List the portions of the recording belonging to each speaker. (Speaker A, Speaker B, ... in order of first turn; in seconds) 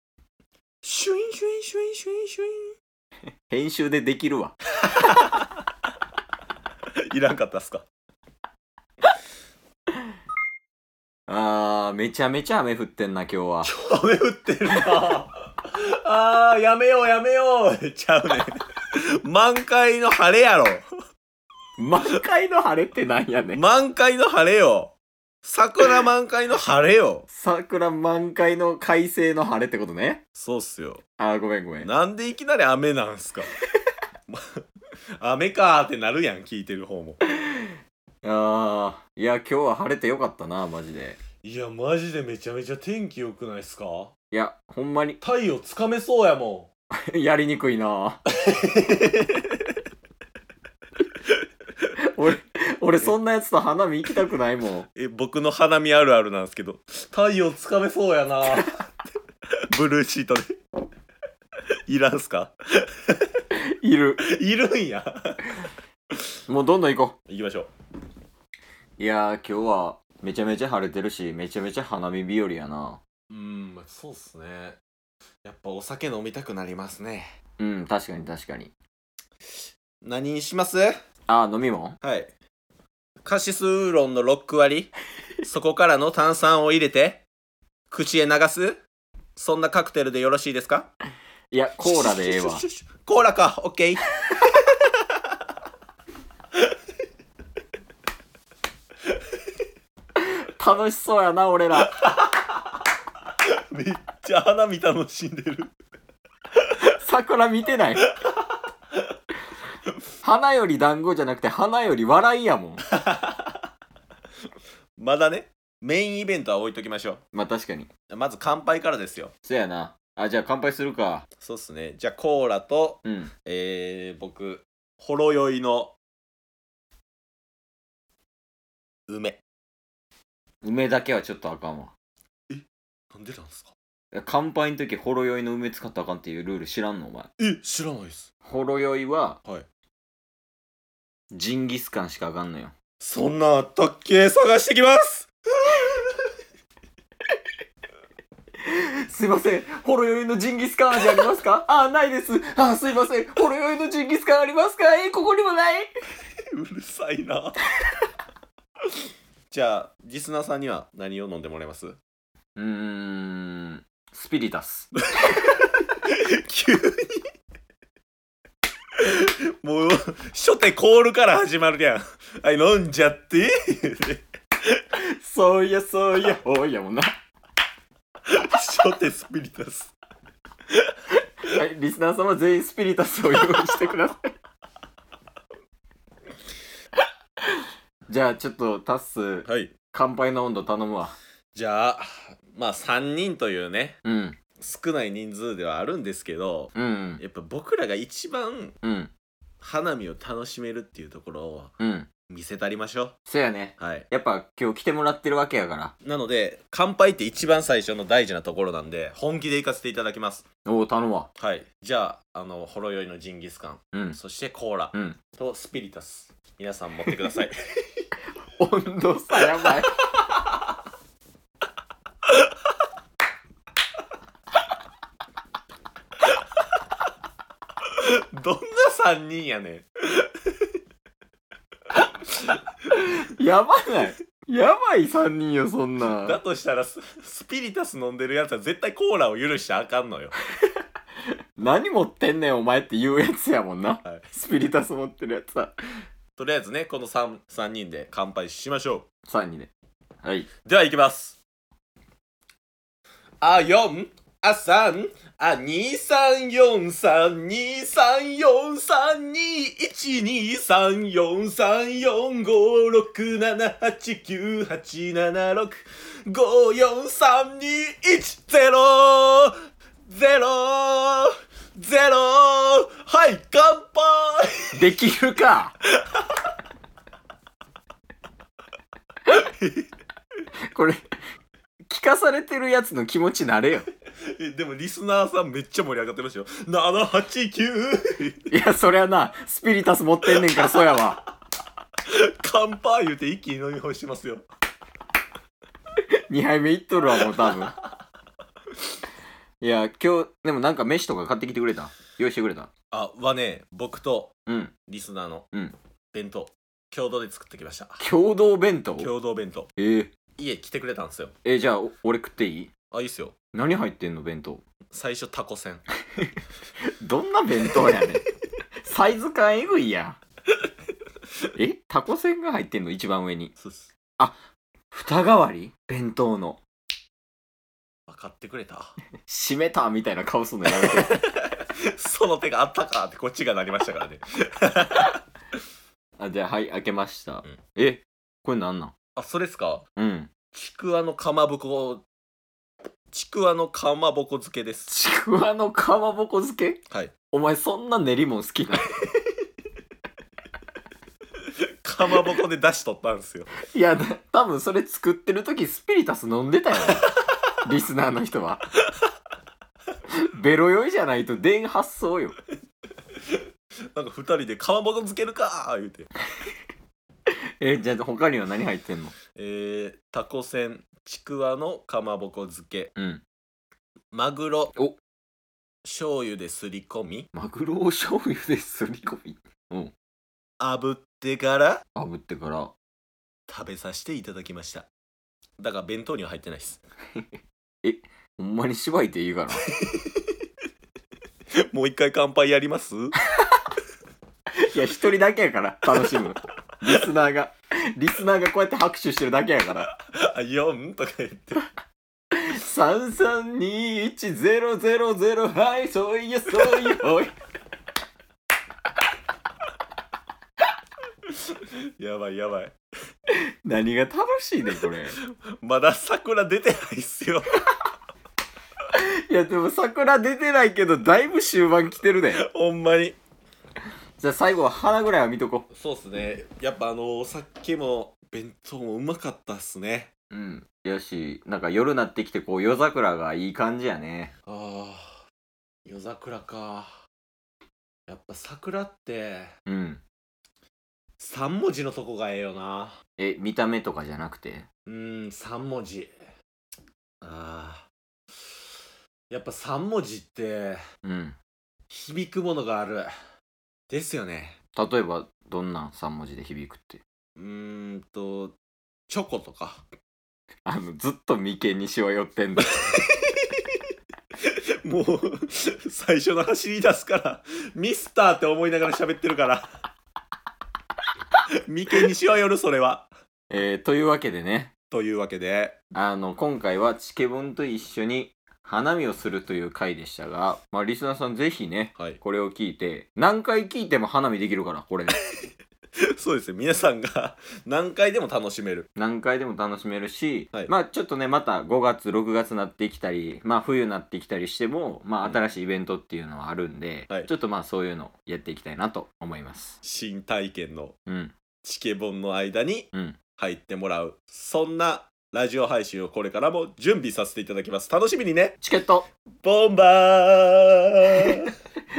Speaker A: 0.8-2.7, 4.9-5.4, 7.1-7.8, 13.6-20.9, 23.5-27.2, 30.4-31.0, 31.8-33.5, 34.3-34.6, 35.2-37.2, 41.4-44.1, 45.2-46.7, 48.4-49.7, 54.9-58.8, 59.7-60.5, 61.9-63.4, 64.2-65.7, 67.3-67.7, 73.3-74.8, 75.4-77.3, 80.0-81.0, 82.0-82.3, 83.2-87.2, 87.9-88.8, 89.3-90.9, 91.8-94.1, 101.8-102.6, 103.4-105.7, 112.9-113.6, 115.0-117.2, 118.1-119.3, 121.4-126.0, 129.1-129.4, 132.5-133.7, 137.4-138.3, 143.0-145.9, 156.5-157.6, 159.5-162.0, 165.9-167.3, 169.0-174.2, 178.3-179.9, 189.4-189.7, 191.5-194.0, 194.6-198.8, 199.6-201.7, 202.3-203.2, 203.8-204.1, 206.0-210.4, 211.4-218.1, 227.8-230.7, 236.1-240.3, 246.4-249.1, 250.6-251.4, 253.4-274.8, 279.3-279.9, 284.2-288.5, 290.3-291.0, 292.1-294.4, 297.2-297.6, 302.9-304.3, 304.9-305.5, 306.1-308.0, 309.0-309.7, 310.4-311.3, 312.9-313.4, 314.9-315.8, 323.6-323.9, 328.1-328.9, 330.7-335.2, 339.1-339.9, 340.5-342.1, 343.1-344.9, 351.8-353.5, 363.9-366.1, 369.3-372.9, 374.1-374.7, 375.8-377.3, 380.6-381.8, 383.5-384.9, 385.6-386.8, 389.8-390.2, 391.6-393.1, 399.9-401.6, 411.2-412.8, 415.2-417.6, 422.3-423.2, 425.7-430.1, 434.5-435.2, 435.8-437.0, 438.1-439.5, 441.2-443.0, 444.9-446.1, 447.2-447.9, 449.3-450.8, 451.9-453.1, 453.9-454.6, 457.4-458.6, 459.1-459.8, 462.8-463.7, 464.4-469.7, 471.6-473.1, 474.9-475.8, 486.1-488.9, 499.8-500.9, 501.6-508.6, 509.4-511.5
Speaker B: 3.5-4.6, 11.3-13.7, 21.8-23.6, 27.3-30.2, 31.2-31.9, 38.2-41.2, 44.3-45.2, 47.0-48.2, 52.0-54.9, 63.5-64.2, 66.5-67.2, 69.0-73.0, 77.6-78.7, 81.3-82.0, 91.5-92.6, 100.2-102.0, 106.8-108.1, 110.2-112.8, 117.3-117.9, 119.4-121.3, 123.0-123.3, 130.6-131.9, 134.1-137.3, 138.4-139.4, 141.3-142.7, 148.7-155.9, 162.6-164.9, 174.9-177.1, 181.4-184.3, 188.1-191.2, 194.0-194.4, 196.7-197.2, 198.8-199.1, 201.8-202.1, 203.3-205.9, 210.7-211.3, 213.9-214.2, 214.9-215.2, 218.6-220.0, 232.9-236.4, 241.6-245.8, 249.3-249.7, 250.2-250.5, 274.7-275.8, 280.7-281.0, 281.9-283.9, 288.5-291.2, 296.3-297.8, 299.6-302.7, 304.5-304.7, 308.0-309.1, 309.8-310.1, 311.4-312.7, 313.5-314.6, 316.8-318.2, 318.8-320.2, 321.6-323.5, 324.9-326.6, 329.2-331.2, 336.2-338.9, 340.0-340.3, 344.9-349.0, 353.6-358.6, 360.1-362.4, 367.6-369.1, 372.9-373.2, 377.3-379.9, 381.9-382.7, 387.8-389.7, 394.6-399.9, 402.3-407.3, 413.3-415.1, 418.9-422.4, 424.2-425.7, 430.3-434.3, 439.6-440.0, 443.2-444.7, 451.0-451.4, 454.7-457.0, 460.6-462.8, 473.5-474.7, 475.9-485.1, 488.9-499.8, 501.1-501.3, 502.9-503.2, 508.6-509.1